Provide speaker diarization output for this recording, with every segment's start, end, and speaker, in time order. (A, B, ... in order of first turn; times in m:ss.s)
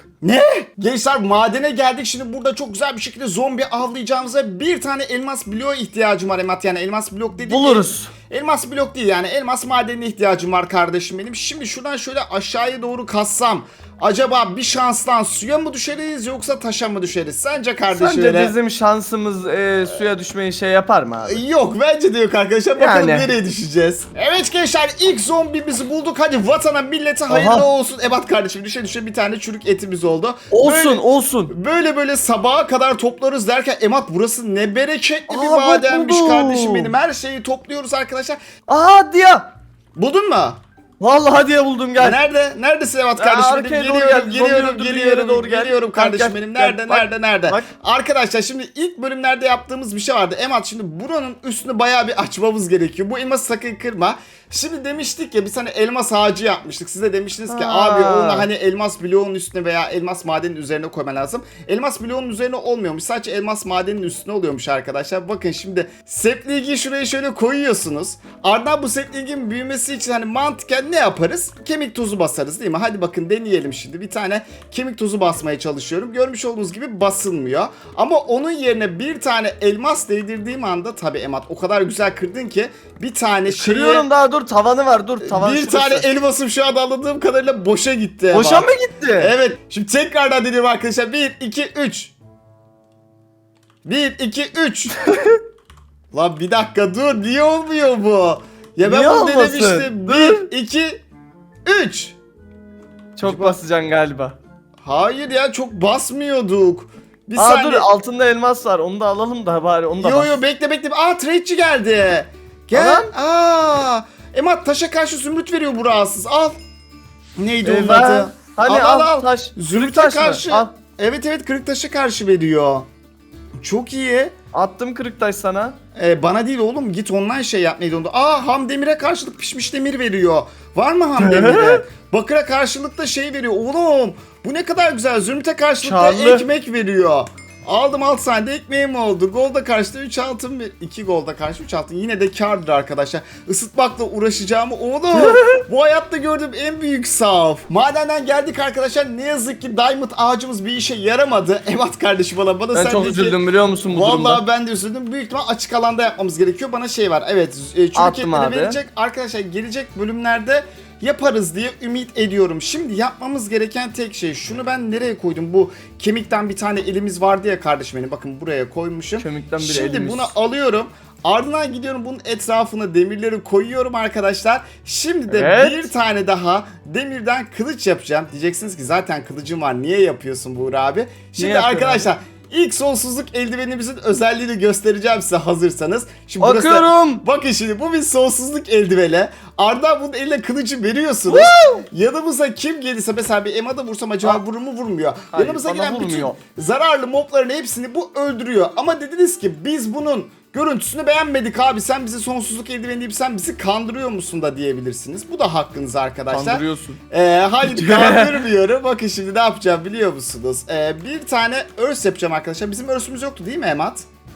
0:00.2-0:18.5 A
0:07.4-0:08.1 B
0:17.9-0:21.4 B
0:21.2-0:38.4 A
0:22.8-0:23.3 B
0:27.3-0:27.6 B
0:30.5-0:31.5 B
0:35.3-0:36.9 B
0:38.7-0:39.5 B
0:40.0-0:40.6 A
0:41.0-0:42.2 B
0:42.0-1:24.0 A
0:43.2-0:47.6 B
0:57.5-0:58.5 B
1:23.5-1:26.0 B
1:25.2-1:32.1 A
1:28.3-1:29.3 B
1:33.8-1:35.0 A
1:35.0-1:35.4 B
1:36.1-1:41.0 A
1:38.8-1:40.5 B
1:41.6-1:42.2 A
1:43.2-1:44.4 B
1:43.2-1:43.6 A
1:44.8-1:47.9 A
1:47.4-1:50.3 B
1:50.0-1:56.6 A
1:52.7-1:53.1 B
1:57.4-2:02.8 A
1:57.6-2:00.7 B
2:03.6-2:04.3 A
2:04.5-2:05.8 B
2:05.9-2:33.3 A
2:11.2-2:11.8 B
2:15.8-2:16.4 B
2:25.1-2:25.6 B
2:32.7-2:34.4 B
2:33.9-3:34.0 A
2:37.9-2:38.8 B
2:49.2-2:50.3 B
2:55.3-2:55.8 B
3:01.4-3:02.0 B
3:06.4-3:07.2 B
3:11.3-3:11.8 B
3:15.3-3:16.4 B
3:26.3-3:27.0 B
3:27.6-3:28.4 B